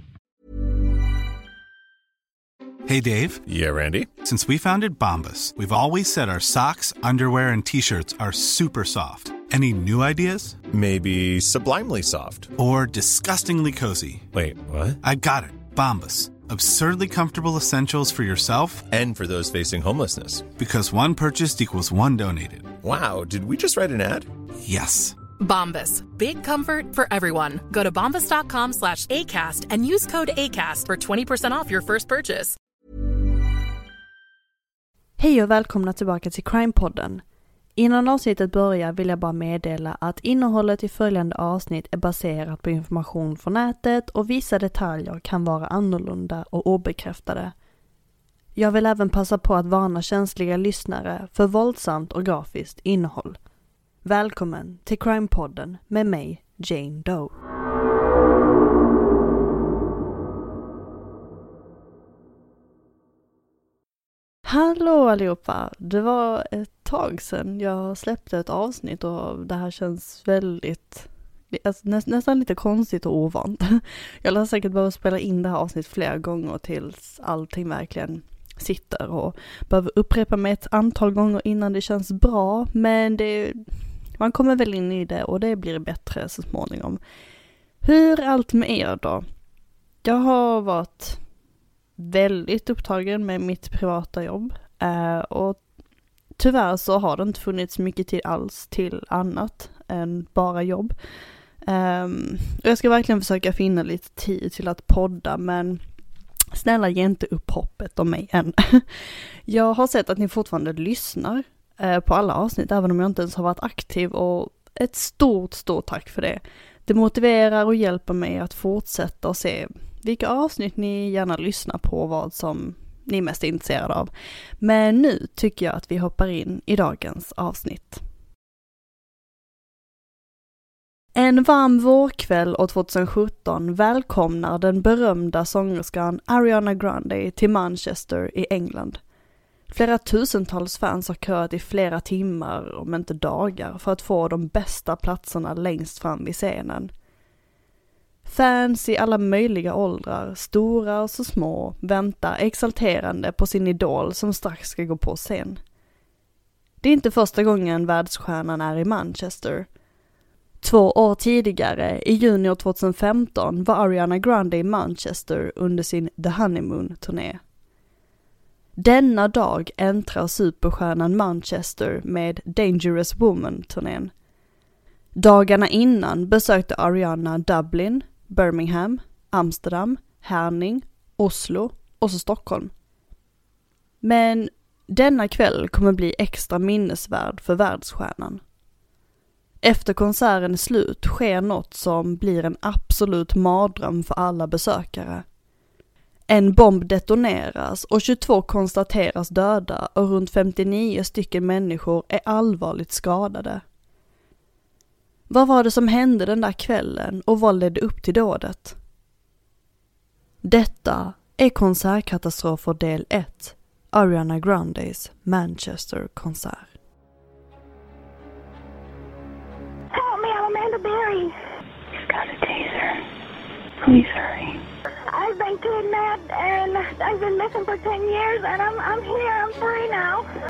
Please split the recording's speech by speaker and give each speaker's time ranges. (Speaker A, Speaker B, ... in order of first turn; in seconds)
Speaker A: 2.9-3.4, 4.2-10.6, 12.6-14.3, 15.0-18.8, 20.6-22.7, 24.6-25.2
Speaker B: 3.5-4.1, 10.7-12.5, 14.3-15.0, 18.9-20.5, 22.8-24.3
Speaker C: 25.4-32.5
Speaker D: 35.2-37.2, 37.8-47.5, 48.5-53.4, 54.0-57.3, 64.4-83.6, 84.2-87.0, 87.8-89.2, 90.0-91.2, 92.0-95.6, 96.4-100.9, 101.7-105.8, 106.5-128.0, 131.1-139.0, 139.7-146.9, 148.2-155.6, 156.8-159.7, 160.6-167.4, 168.8-174.1, 175.2-182.7, 184.0-188.4, 189.6-195.2, 196.3-203.6, 205.3-208.8, 210.4-216.7
Speaker E: 219.9-221.3, 222.1-223.0, 223.8-230.3